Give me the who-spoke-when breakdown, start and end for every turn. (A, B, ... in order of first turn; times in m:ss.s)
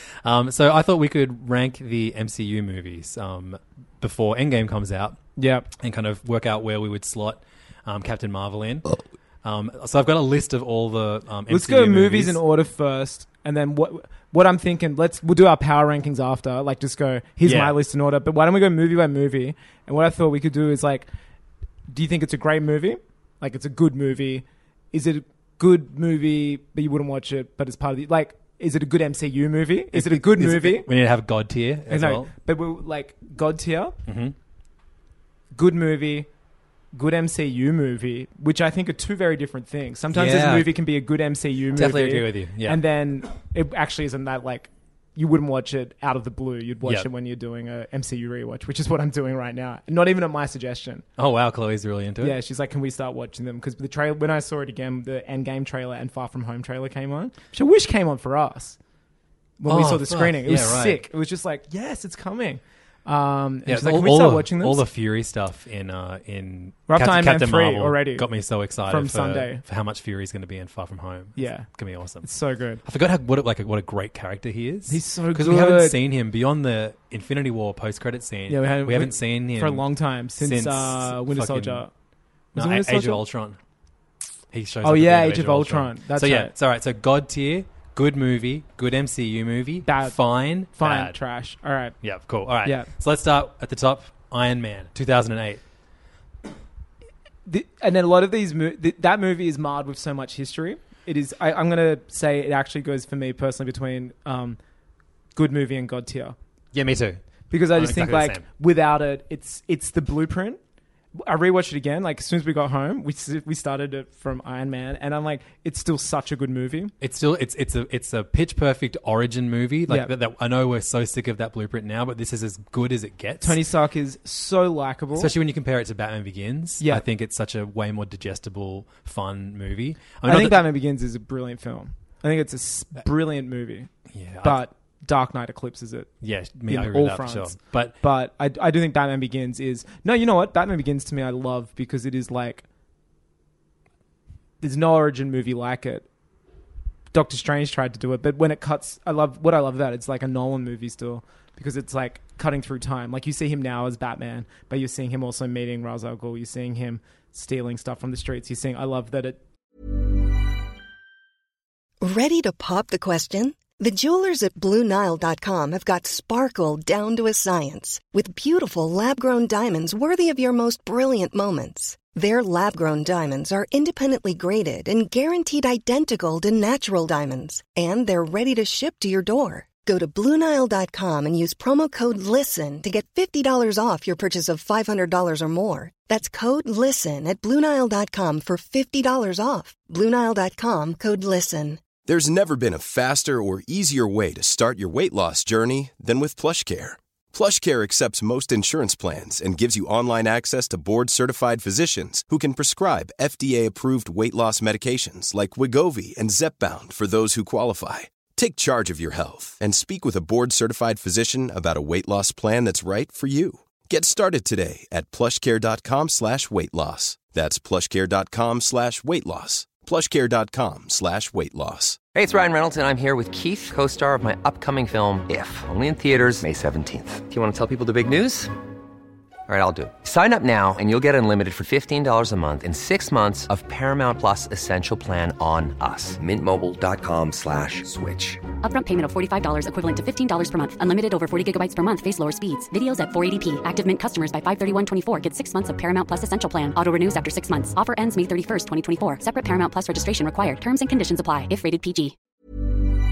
0:00.2-0:12.4 A
0:05.4-0:05.7 B
0:11.5-0:21.1 B
0:17.4-0:17.8 A
0:21.9-0:30.9 B
0:29.9-0:32.3 A
0:31.9-0:34.0 B
0:34.1-0:34.4 A
0:35.5-0:36.3 B
0:36.9-0:51.0 B
0:40.1-0:40.8 A
0:41.7-0:42.8 A
0:51.2-0:52.4 A
0:52.2-0:58.8 B
0:59.6-1:04.9 B
0:59.6-1:01.1 A
1:03.7-1:12.3 A
1:06.9-1:08.3 B
1:08.9-1:09.6 B
1:11.4-1:11.7 B
1:12.2-1:12.8 B
1:12.8-1:21.9 A
1:14.9-1:16.0 B
1:18.5-1:21.9 B
1:22.5-1:23.2 B
1:22.5-1:23.6 A
1:24.5-1:31.2 A
1:24.8-1:26.5 B
1:29.8-1:32.0 B
1:32.0-1:35.6 A
1:32.6-1:32.9 B
1:37.4-1:44.6 B
1:45.4-1:46.4 B
1:46.7-1:48.5 A
1:47.5-1:50.6 B
1:51.2-1:56.9 B
1:57.0-2:03.6 A
1:59.9-2:00.1 B
2:03.4-2:05.3 B
2:05.1-2:10.7 A
2:10.2-2:13.9 B
2:14.1-2:14.6 A
2:14.4-2:16.1 B
2:16.2-2:18.0 A
2:16.7-2:22.6 B
2:24.6-2:26.1 B
2:27.1-2:39.4 B
2:42.0-3:12.0 C
3:12.0-3:42.0 D
3:42.1-3:48.5 E
3:49.5-3:58.4 E
3:58.6-4:12.1 F